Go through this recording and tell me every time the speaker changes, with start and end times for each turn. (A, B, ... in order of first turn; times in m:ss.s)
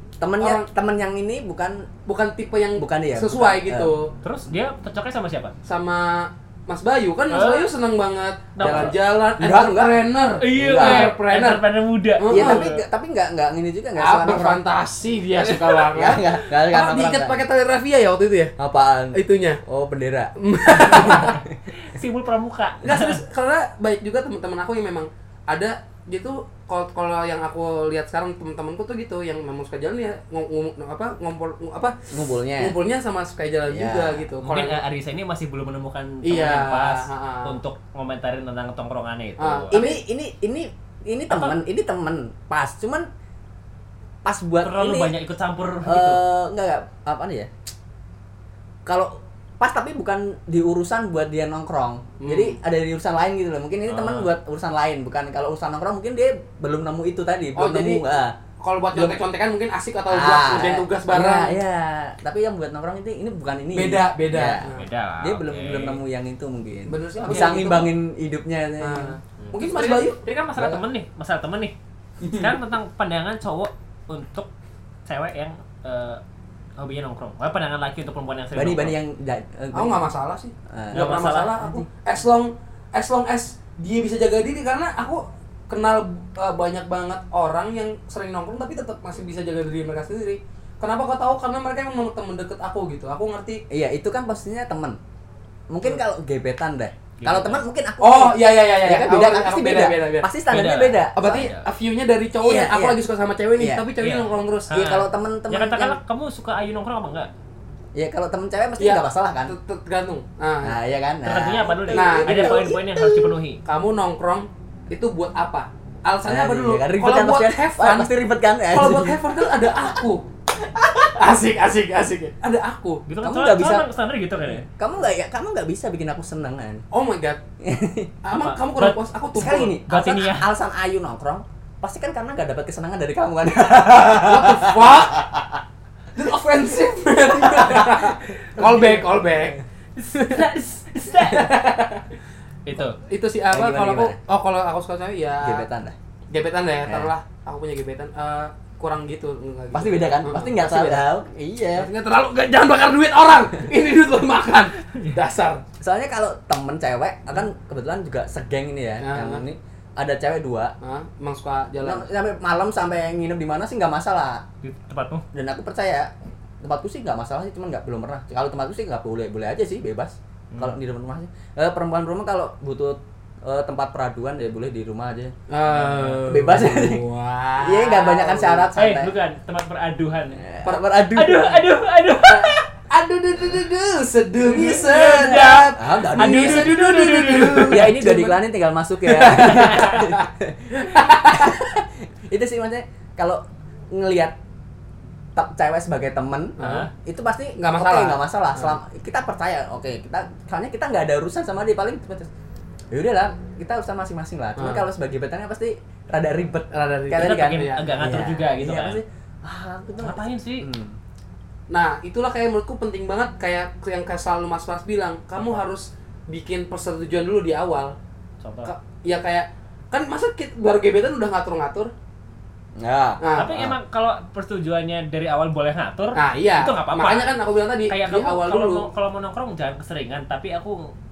0:00.2-0:01.9 A
0:00.4-0:00.7 B
0:02.1-0:04.1 B
0:02.8-0:03.9 A
0:04.2-0:05.5 C
0:05.6-0:12.7 B
0:07.3-0:07.7 C
0:08.6-0:09.0 C
0:08.6-0:11.1 A
0:10.4-0:12.8 C
0:12.3-0:14.6 A
0:14.0-0:18.5 B
0:15.4-0:17.4 A
0:18.6-0:21.5 A
0:19.1-0:19.6 B
0:20.4-0:21.4 B
0:20.9-0:23.2 C
0:22.8-0:32.0 B
0:32.1-0:32.8 A
0:32.6-0:34.8 B
0:33.7-0:34.2 A
0:34.4-0:39.9 C
0:36.2-0:37.6 B
0:39.4-0:40.0 B
0:39.7-0:43.1 A
0:41.3-0:41.6 C
0:44.2-0:45.1 A
0:44.6-0:46.2 C
0:45.8-0:47.5 A
0:48.9-0:58.4 A
0:52.2-0:52.6 B
0:53.9-0:54.3 C
0:57.6-0:58.0 B
0:58.6-1:01.6 B
0:58.9-0:59.2 A
1:00.1-1:04.7 A
1:03.7-1:04.8 B
1:04.6-1:06.0 C
1:05.2-1:09.2 A
1:06.9-1:07.9 B
1:07.3-1:07.6 C
1:08.8-1:10.2 B
1:09.4-1:11.8 C
1:10.6-1:10.8 A
1:12.2-1:12.5 B
1:12.3-1:14.5 C
1:15.1-1:16.2 C
1:16.8-1:19.0 C
1:18.5-1:20.1 A
1:19.7-1:33.6 B
1:20.7-1:21.9 A
1:20.9-1:21.6 C
1:33.7-1:35.0 A
1:35.7-1:41.5 A
1:37.2-1:37.6 C
1:38.0-1:40.3 B
1:40.5-1:41.7 C
1:41.2-1:44.7 B
1:42.4-1:43.0 A
1:43.6-1:43.9 A
1:44.0-1:47.3 C
1:44.7-1:46.0 A
1:48.0-1:49.6 A
1:48.8-1:50.8 B
1:50.6-1:53.4 A
1:51.2-1:53.6 C
1:51.9-1:52.6 B
1:53.6-1:58.1 B
1:56.2-1:59.2 A
1:58.7-2:03.0 B
2:03.1-2:04.7 C
2:03.2-2:03.9 A
2:04.5-2:06.8 A
2:06.9-2:07.4 B
2:07.6-2:08.1 A
2:08.2-2:09.8 B
2:08.4-2:09.0 C
2:09.4-2:15.6 A
2:09.8-2:10.5 C
2:14.2-2:15.2 B
2:16.2-2:19.6 B
2:18.6-2:19.0 C
2:20.0-2:21.6 C
2:20.2-2:20.4 B
2:21.2-2:22.0 B
2:22.6-2:23.0 C
2:23.0-2:25.7 B
2:23.5-2:24.2 A
2:25.4-2:26.0 A
2:26.3-2:31.1 B
2:26.9-2:27.1 A
2:29.7-2:31.9 A
2:31.8-2:35.6 B
2:34.9-2:35.2 C
2:35.8-2:40.7 A
2:39.0-2:39.4 B
2:40.8-2:42.1 B
2:41.8-2:44.4 A
2:44.6-2:45.2 C
2:45.3-2:46.1 A
2:46.6-2:55.3 A
2:50.5-2:50.8 C
2:55.5-2:58.7 B
2:55.7-2:56.2 C
2:56.3-2:57.0 A
2:57.6-2:59.1 A
2:58.8-3:00.4 C
3:00.3-3:01.7 A
3:00.6-3:00.9 B
3:01.1-3:02.7 C
3:02.9-3:07.9 B
3:04.4-3:08.4 C
3:05.8-3:06.8 A
3:07.6-3:14.4 A
3:09.0-3:10.2 B
3:09.4-3:10.1 C
3:11.0-3:11.5 B
3:15.4-3:22.3 A
3:16.6-3:16.9 B
3:16.6-3:16.9 C
3:17.6-3:18.8 B
3:22.9-3:31.0 A
3:24.6-3:24.9 B
3:26.7-3:27.9 B
3:27.2-3:29.0 C
3:30.0-3:30.7 C
3:31.7-3:38.0 B
3:35.4-3:35.6 C
3:38.4-3:38.7 C
3:38.6-3:41.9 B
3:42.8-3:43.8 A
3:43.2-3:43.6 B
3:43.4-3:47.3 C
3:46.2-3:48.9 B
3:47.9-3:50.9 C